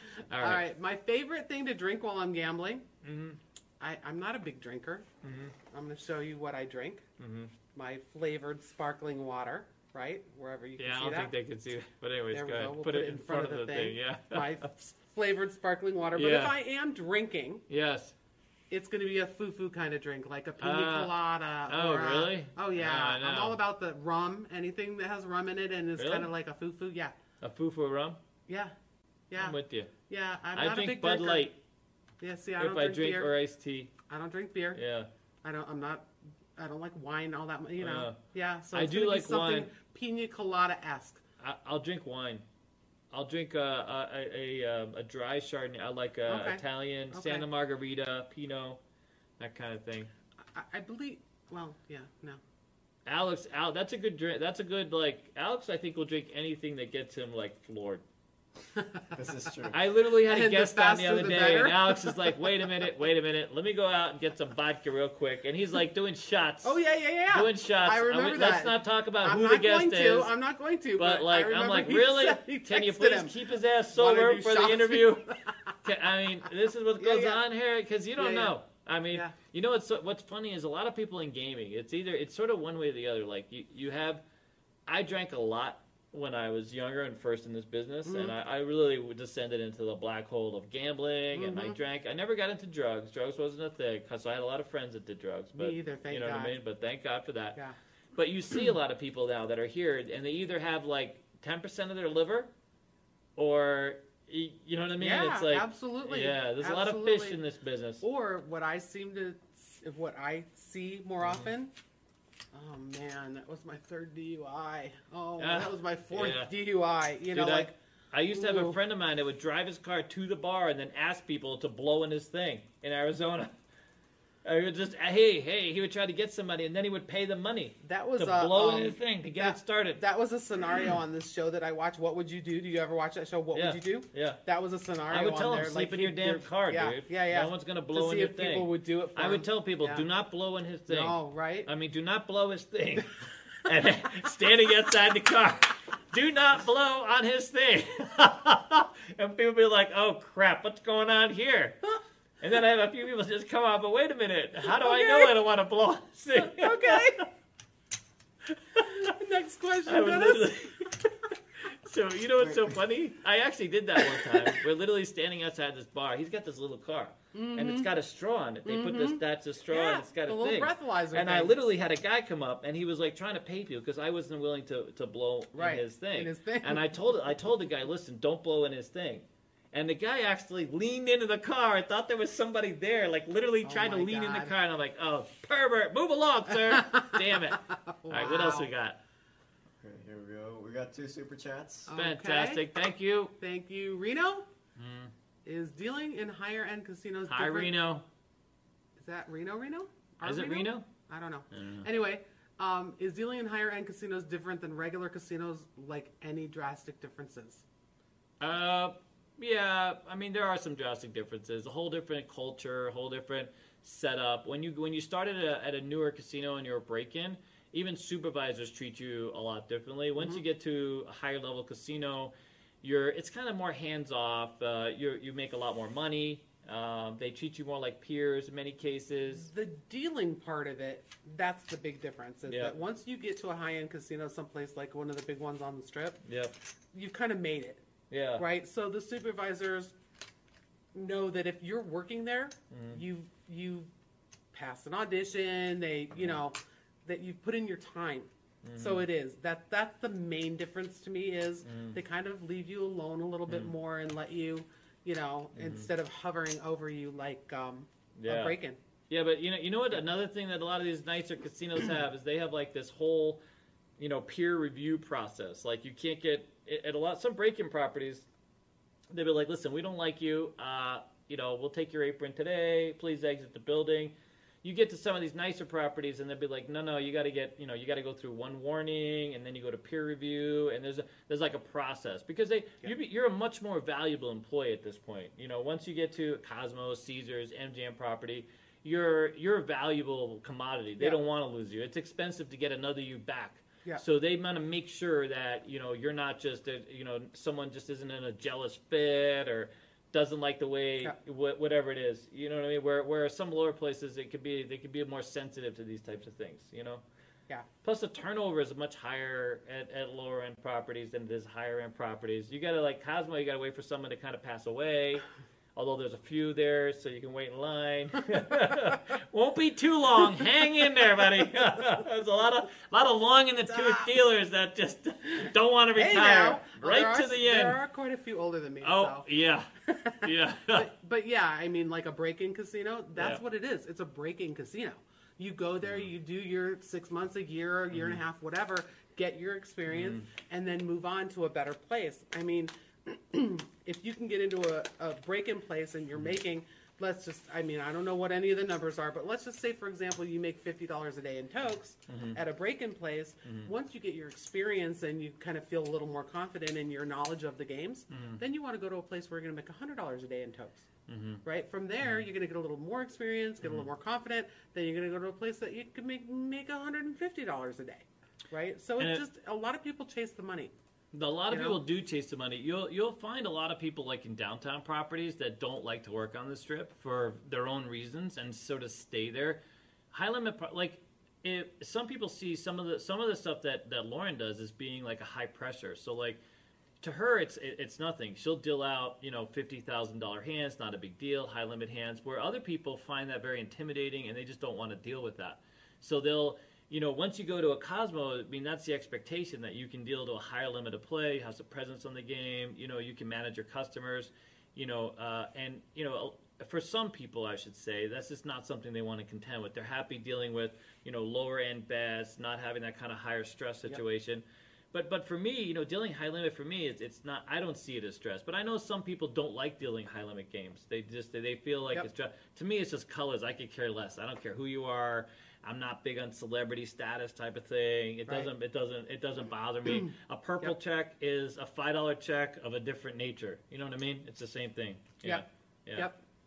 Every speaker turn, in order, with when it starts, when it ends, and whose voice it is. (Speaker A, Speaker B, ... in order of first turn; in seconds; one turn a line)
Speaker A: 0.3-0.6
Speaker B: 0.4-2.8
Speaker A: 3.0-3.4
Speaker B: 3.8-5.0
Speaker A: 5.2-5.5
Speaker B: 5.7-7.0
Speaker A: 7.2-7.5
Speaker B: 7.7-11.3
Speaker A: 10.8-14.7
Speaker B: 12.3-17.6
Speaker A: 16.1-16.6
Speaker A: 17.7-18.1
Speaker B: 18.7-27.1
Speaker A: 20.6-21.1
Speaker A: 21.7-23.6
Speaker A: 26.0-26.3
Speaker A: 27.4-28.2
Speaker B: 29.3-29.6
Speaker A: 29.4-29.9
Speaker B: 30.1-31.5
Speaker A: 30.5-31.6
Speaker B: 32.2-33.3
Speaker A: 32.6-33.9
Speaker B: 34.1-34.8
Speaker A: 34.7-35.1
Speaker B: 35.4-41.2
Speaker A: 37.8-38.2
Speaker A: 38.7-39.7
Speaker A: 41.4-42.4
Speaker A: 43.1-48.8
Speaker B: 46.3-47.5
Speaker A: 49.4-50.1
Speaker B: 50.5-52.4
Speaker A: 53.0-58.0
Speaker B: 58.8-59.1
Speaker C: 59.1-59.8
Speaker A: 59.7-66.8
Speaker B: 60.2-62.5
Speaker B: 66.6-73.4
Speaker A: 67.3-70.3
Speaker A: 71.0-75.3
Speaker B: 73.9-75.7
Speaker A: 75.8-84.2
Speaker B: 77.0-77.4
Speaker B: 78.2-78.5
Speaker A: 84.9-97.6
Speaker B: 88.0-88.3
Speaker B: 91.3-91.8
Speaker B: 95.5-96.6
Speaker A: 98.2-102.5
Speaker A: 103.4-108.0
Speaker B: 105.0-107.4
Speaker B: 108.0-111.7
Speaker A: 111.2-111.5
Speaker B: 112.5-117.7
Speaker A: 115.4-116.5
Speaker A: 117.3-123.5
Speaker B: 118.3-118.8
Speaker A: 124.4-130.0
Speaker B: 127.8-140.1
Speaker A: 133.5-134.4
Speaker A: 135.1-151.8
Speaker B: 140.9-141.7
Speaker A: 152.4-157.3
Speaker B: 154.7-155.3
Speaker B: 156.3-157.3
Speaker A: 158.5-159.1
Speaker B: 158.8-160.9
Speaker A: 159.8-161.1
Speaker A: 161.6-189.0
Speaker B: 164.0-164.6
Speaker B: 167.3-167.9
Speaker B: 168.6-171.6
Speaker B: 175.5-176.9
Speaker B: 183.6-184.5
Speaker B: 186.5-188.7
Speaker C: 189.8-191.9
Speaker B: 191.9-192.6
Speaker A: 191.9-193.3
Speaker B: 193.4-194.5
Speaker A: 194.8-195.1
Speaker B: 195.4-197.7
Speaker A: 197.3-198.0
Speaker B: 199.0-207.6
Speaker A: 200.2-200.9
Speaker A: 201.5-201.8
Speaker A: 208.4-229.5
Speaker B: 229.3-236.2
Speaker A: 232.5-232.7
Speaker A: 236.2-236.5
Speaker B: 236.9-237.8
Speaker A: 238.1-238.4
Speaker B: 238.4-239.9
Speaker B: 240.9-243.9
Speaker A: 242.7-243.0
Speaker B: 244.5-258.8
Speaker A: 248.6-249.0
Speaker A: 251.6-252.0
Speaker A: 255.5-255.9
Speaker A: 258.1-258.6
Speaker A: 259.1-263.4
Speaker A: 264.0-268.2
Speaker A: 269.1-307.0
Speaker A: 307.8-327.8
Speaker B: 323.7-324.1
Speaker B: 325.4-329.2
Speaker A: 328.8-329.7
Speaker B: 329.9-360.9
Speaker A: 330.2-330.9
Speaker A: 333.1-333.4
Speaker A: 335.8-336.1
Speaker A: 337.9-338.2
Speaker A: 339.9-340.3
Speaker A: 352.1-352.4
Speaker A: 353.4-353.7
Speaker A: 358.1-358.4
Speaker A: 361.1-361.4
Speaker B: 361.4-370.7
Speaker A: 363.6-363.9
Speaker A: 371.1-379.6
Speaker B: 371.5-371.8
Speaker A: 380.1-386.4
Speaker A: 387.0-436.1
Speaker B: 429.9-430.7
Speaker B: 435.9-436.2